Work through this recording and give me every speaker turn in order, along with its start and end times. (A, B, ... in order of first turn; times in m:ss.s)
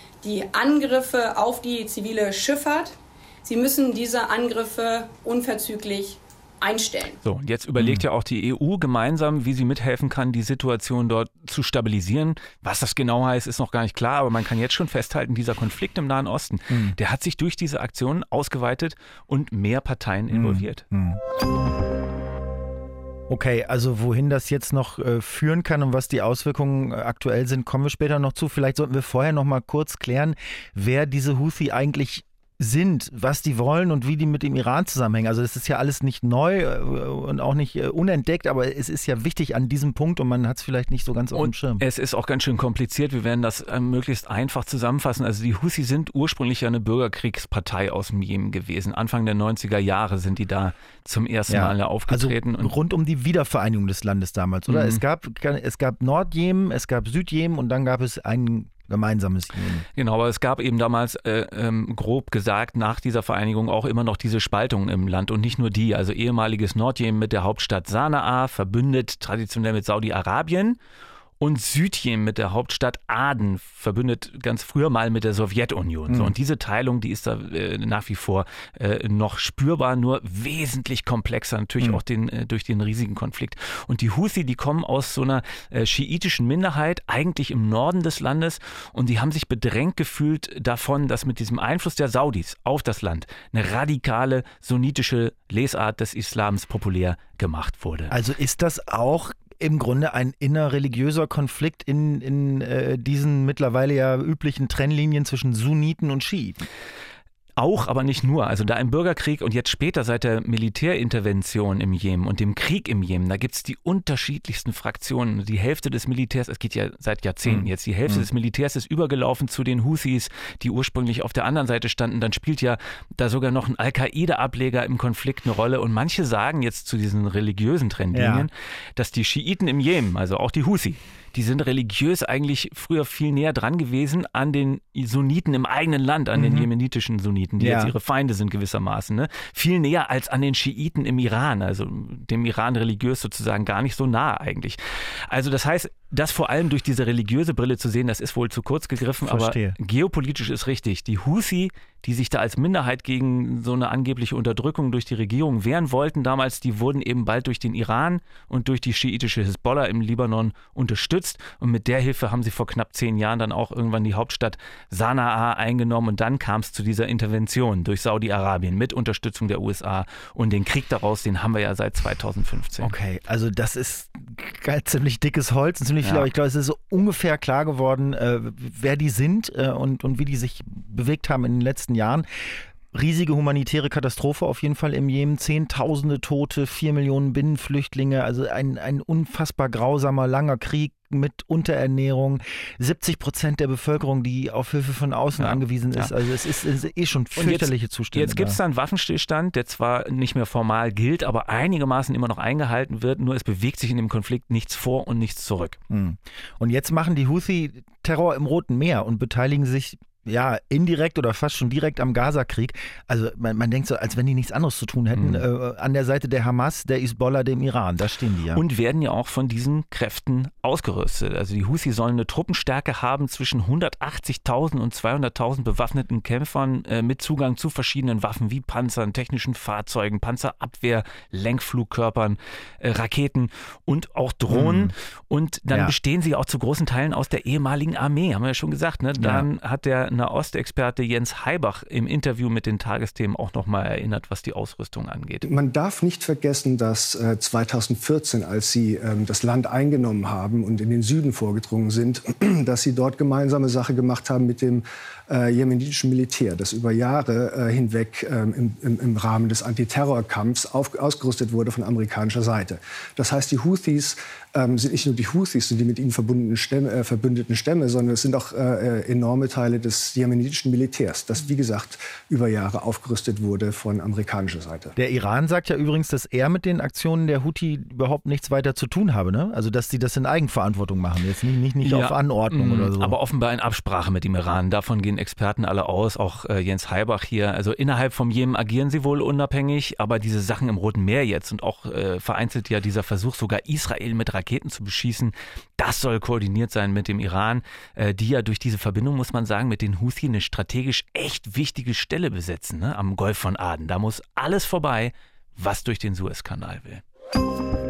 0:00.2-0:07.2 A
0:07.2-0:20.8 B
0:07.8-0:08.0 C
0:16.7-0:17.0 C
0:20.3-0:21.2 C
0:23.3-0:41.8 C
0:41.3-0:52.7 B
0:51.5-0:59.8 C
0:54.7-0:55.0 B
0:59.9-1:10.8 B
1:11.4-1:38.1 B
1:16.1-1:16.3 C
1:38.1-1:46.6 C
1:47.6-2:52.9 B
1:57.4-1:58.3 C
2:08.1-2:08.5 C
2:16.3-2:16.7 C
2:17.6-2:17.9 C
2:29.2-2:29.8 C
2:52.8-3:02.2 C
2:56.0-2:56.3 B
3:02.9-3:18.6 C
3:15.4-3:16.1 B
3:17.3-3:25.8 B
3:25.9-3:38.6 C
3:35.1-3:35.4 B
3:38.5-4:05.5 B
3:54.5-3:54.9 C
3:55.7-3:55.9 C
3:59.2-3:59.5 C
4:05.4-4:34.9 D
4:35.0-4:43.2 C
4:41.8-5:07.0 B